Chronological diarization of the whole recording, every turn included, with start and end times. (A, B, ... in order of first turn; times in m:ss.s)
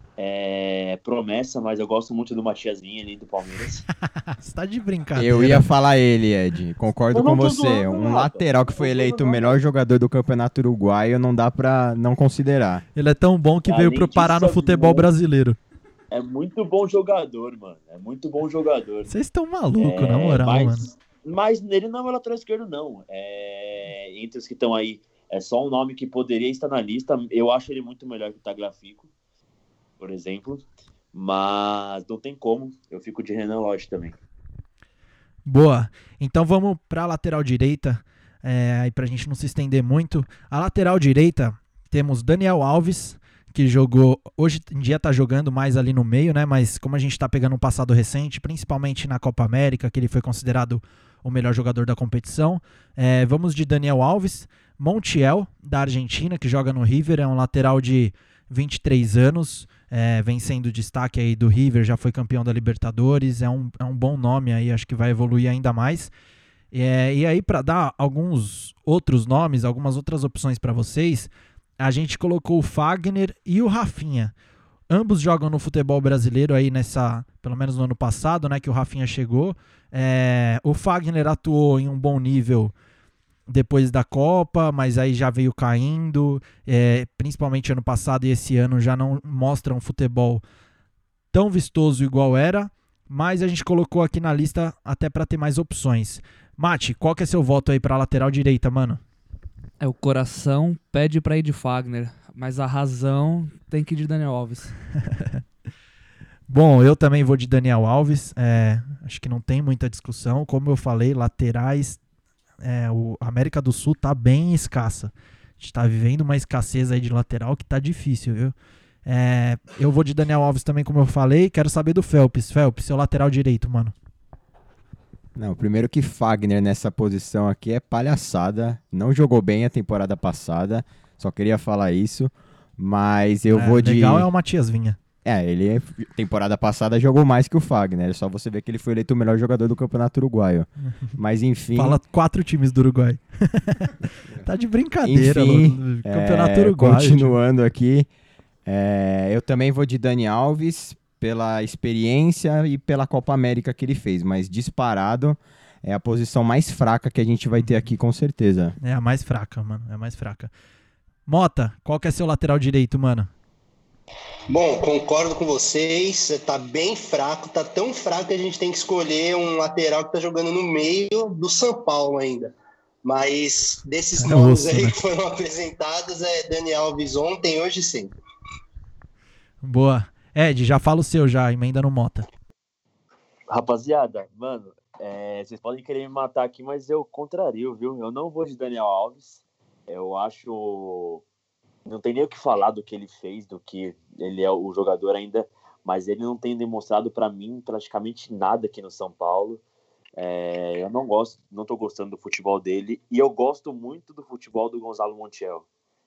0:00.2-0:03.8 A
0:04.4-0:05.6 B
0:05.2-0:12.8 C
0:07.1-0:09.6 A
0:13.0-0:15.6 B
0:13.7-0:15.1 A
0:16.1-0:19.1 A
0:19.1-0:20.9 B
0:19.8-0:29.1 A
0:30.0-0:34.1 A
0:35.4-1:06.1 B
1:06.7-1:14.3 B
1:14.9-1:22.7 B
1:23.5-1:30.4 B
1:31.3-1:39.0 B
1:39.8-1:44.7 D
1:46.5-1:52.0 B
1:52.6-1:58.5 B
1:59.0-2:03.9 B
2:05.4-2:14.3 C
2:13.5-2:15.0 B
2:15.2-2:22.0 C
2:21.7-2:27.4 B
2:25.0-2:28.1 C
2:28.6-2:38.8 C
2:38.8-2:40.5 B
2:41.3-2:43.3 B
2:44.5-2:58.1 E
2:54.2-2:54.9 B
2:59.6-3:02.3 B
3:03.5-3:11.2 A
3:11.8-3:19.6 A
3:20.2-3:25.6 A